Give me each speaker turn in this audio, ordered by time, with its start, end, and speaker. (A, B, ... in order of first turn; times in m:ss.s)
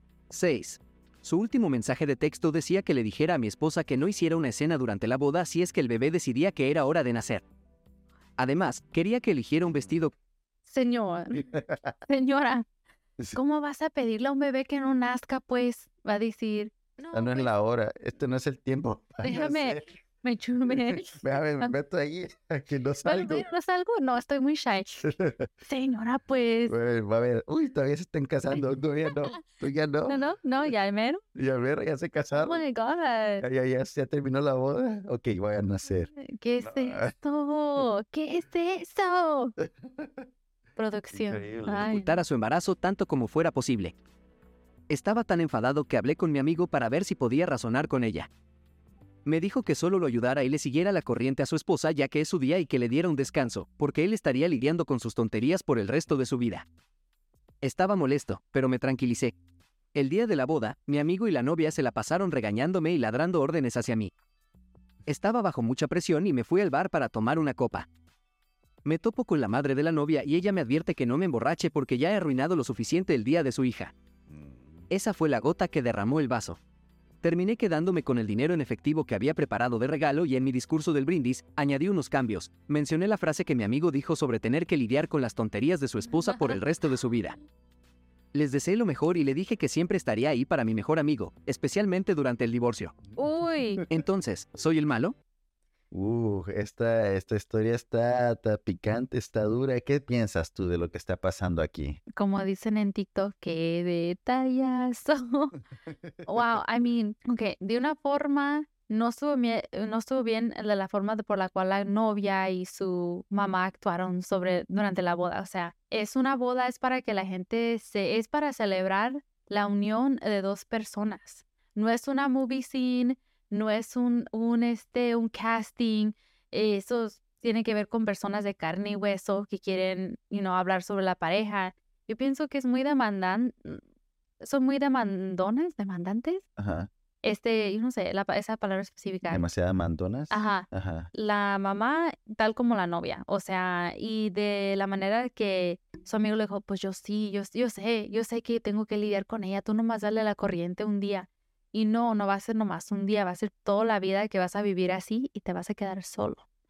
0:00.3-0:07.4 A
0:08.4-0:10.1 A
0:10.6-0:12.6 B
0:11.5-0:11.9 C
0:13.3-0:17.5 B
0:17.1-0:19.8 C
0:19.2-0:21.7 B
0:20.7-0:23.4 C
0:23.0-0:25.1 B
0:25.0-0:25.5 C
0:25.6-0:26.7 B
0:26.7-0:30.2 C
0:30.1-0:31.2 B
0:31.3-0:32.6 C
0:32.4-0:33.4 B
0:33.4-0:37.1 C
0:36.2-0:39.6 B
0:40.8-0:42.2 B
0:41.1-0:41.9 C
0:41.7-0:43.9 A
0:44.9-0:48.3 A
0:49.2-0:56.6 A
0:57.6-0:59.3 A
0:59.9-1:04.1 A
1:05.1-1:07.9 A
1:08.8-1:13.9 A
1:14.9-1:16.6 A
1:17.2-1:27.4 A
1:28.3-1:33.0 A
1:33.1-1:33.8 B
1:33.9-1:35.1 A
1:35.9-1:42.0 C
1:42.2-1:45.6 B
1:46.2-2:13.8 B
2:14.4-2:16.4 B
2:16.6-2:16.9 C
2:17.2-2:19.4 B
2:19.3-2:21.1 C
2:20.3-2:36.4 B